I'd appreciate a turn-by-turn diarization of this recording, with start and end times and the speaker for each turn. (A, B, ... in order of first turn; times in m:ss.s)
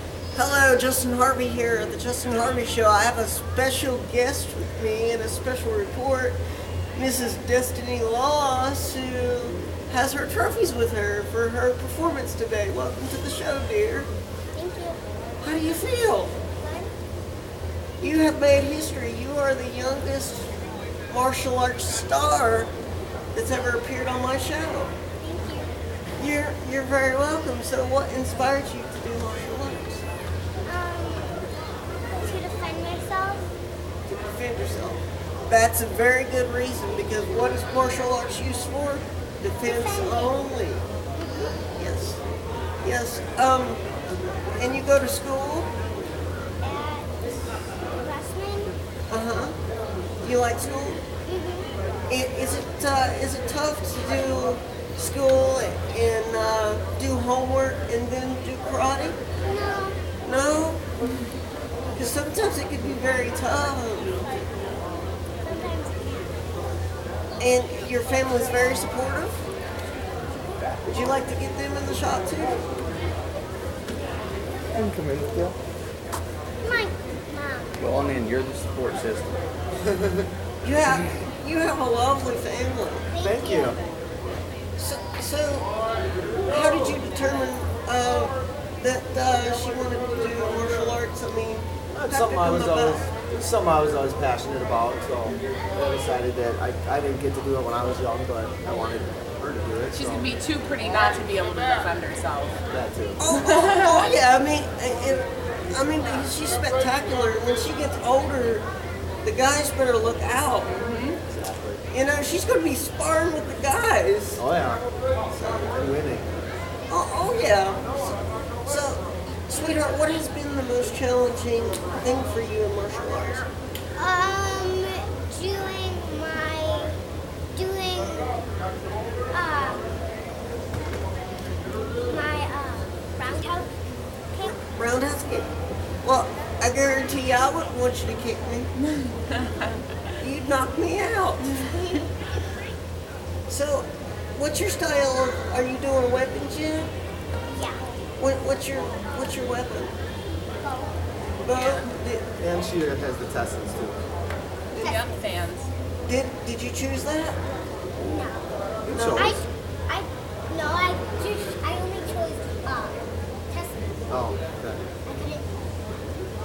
0:00.3-0:06.4 A
0:06.9-0:14.1 A
0:14.5-0:15.0 B
0:15.4-0:16.4 A
0:16.6-0:16.9 B
0:18.0-0:20.5 A
0:21.1-0:22.7 A
0:23.3-0:24.9 A
0:25.2-0:25.7 B
0:26.2-0:30.0 A
0:30.6-0:31.4 B
0:32.1-0:33.5 B
0:34.1-0:40.8 A
0:39.6-0:40.4 B
0:41.1-0:41.6 B
0:41.7-0:42.2 A
0:42.8-0:43.8 A
0:44.6-0:45.7 A
0:46.6-0:48.8 B
0:49.1-0:49.6 A
0:50.2-0:51.0 A
0:51.2-0:51.7 B
0:52.1-0:59.2 A
0:59.4-1:00.0 B
1:00.2-1:00.8 A
1:01.9-1:04.2 A
1:05.4-1:06.3 B
1:07.4-1:09.4 A
1:10.9-1:12.7 A
1:14.8-1:15.5 C
1:16.6-1:17.8 B
1:17.8-1:19.4 C
1:19.8-1:20.3 D
1:20.6-1:23.1 A
1:23.1-1:23.8 B
1:23.2-1:23.8 D
1:24.8-1:25.7 A
1:26.4-1:33.0 A
1:31.9-1:40.3 D
1:39.9-1:42.6 E
1:42.7-1:43.2 D
1:43.2-1:48.6 A
1:43.3-1:44.1 E
1:49.2-1:50.8 A
1:50.7-1:51.2 E
1:51.3-1:51.8 D
1:51.9-1:54.4 A
1:54.4-1:54.8 D
1:55.3-1:55.8 A
1:55.7-1:56.3 D
1:56.9-2:03.5 A
2:04.0-2:07.0 B
2:07.5-2:08.3 B
2:09.3-2:09.9 B
2:12.0-2:13.7 B
2:14.3-2:14.6 B
2:14.4-2:15.5 A
2:16.0-2:18.7 A
2:18.8-2:19.8 E
2:20.2-2:21.6 A
2:21.6-2:22.1 B
2:23.5-2:26.9 A
2:27.5-2:27.8 B
2:28.2-2:29.9 A
2:30.6-2:30.9 B
2:31.4-2:32.3 A
2:31.5-2:31.9 E
2:32.4-2:34.0 D
2:34.7-2:35.0 A
2:34.8-2:35.1 B
2:34.8-2:35.7 E
2:36.0-2:37.4 A
2:38.0-2:38.5 B
2:38.8-2:39.4 D
2:38.9-2:39.3 A
2:39.1-2:43.0 B
2:43.5-2:44.0 B
2:44.1-2:44.8 D
2:45.0-2:45.5 B